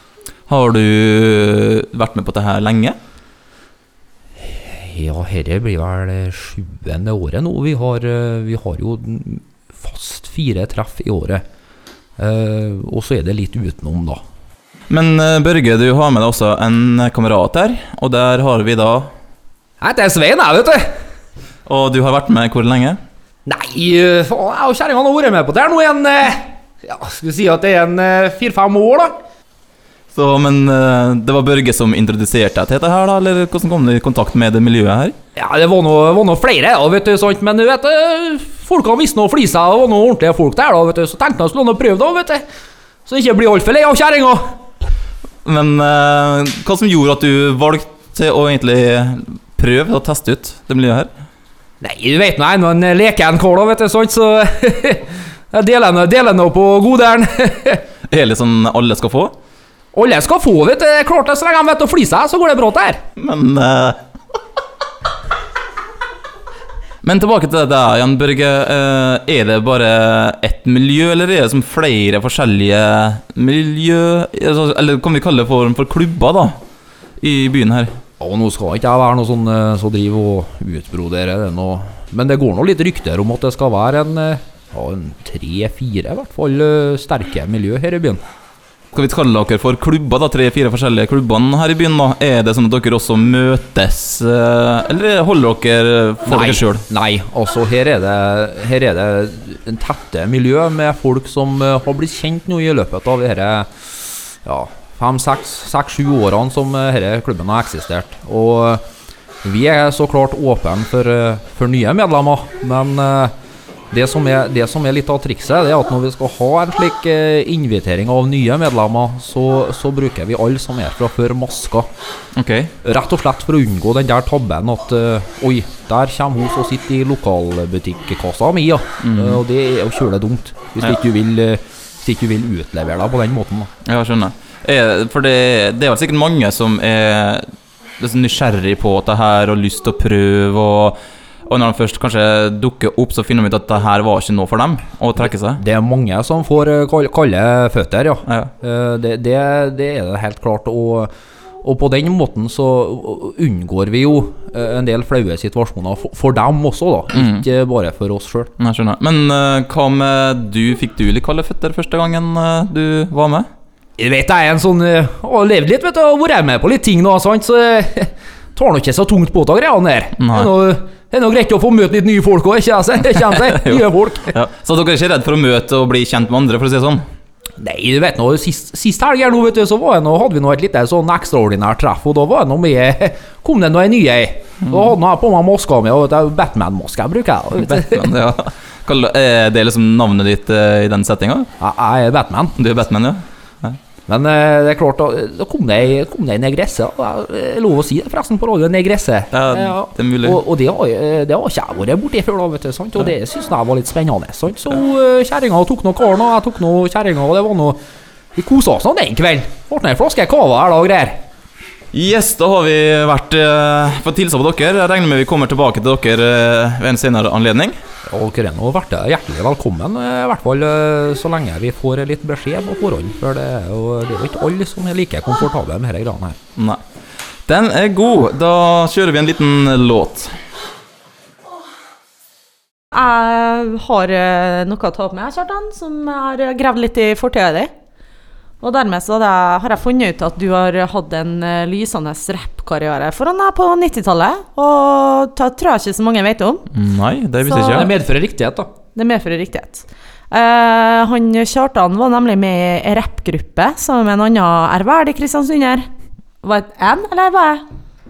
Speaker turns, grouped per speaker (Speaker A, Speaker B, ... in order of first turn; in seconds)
Speaker A: 0.5-3.0, 14.9-19.1, 21.7-23.0, 30.1-35.1, 45.5-51.1, 58.1-59.3, 63.2-64.0, 67.0-76.6, 77.2-77.9, 88.9-96.8, 122.4-122.7, 129.0-129.4, 133.8-137.5, 138.0-145.6, 157.1-157.5, 158.6-163.5, 170.2-170.5, 173.3-177.0, 184.6-184.9, 187.6-191.5, 192.6-193.8, 199.3-200.4, 211.9-217.8, 226.6-226.8, 227.5-230.3, 246.7-247.9
Speaker B: 4.4-11.4, 12.2-14.2, 19.8-21.0, 23.5-29.2, 35.4-42.4, 43.1-44.5, 51.8-57.9, 59.9-63.0, 78.2-88.2, 96.2-108.8, 109.4-113.3, 113.9-121.9, 122.8-133.7, 145.2-151.1, 151.6-158.5, 164.0-174.4, 177.6-188.1, 191.6-192.6, 194.1-207.8, 208.3-211.2, 218.1-226.4, 247.5-248.7
Speaker C: 232.9-237.7, 238.6-246.7, 247.4-247.9, 248.9-255.9, 256.4-257.6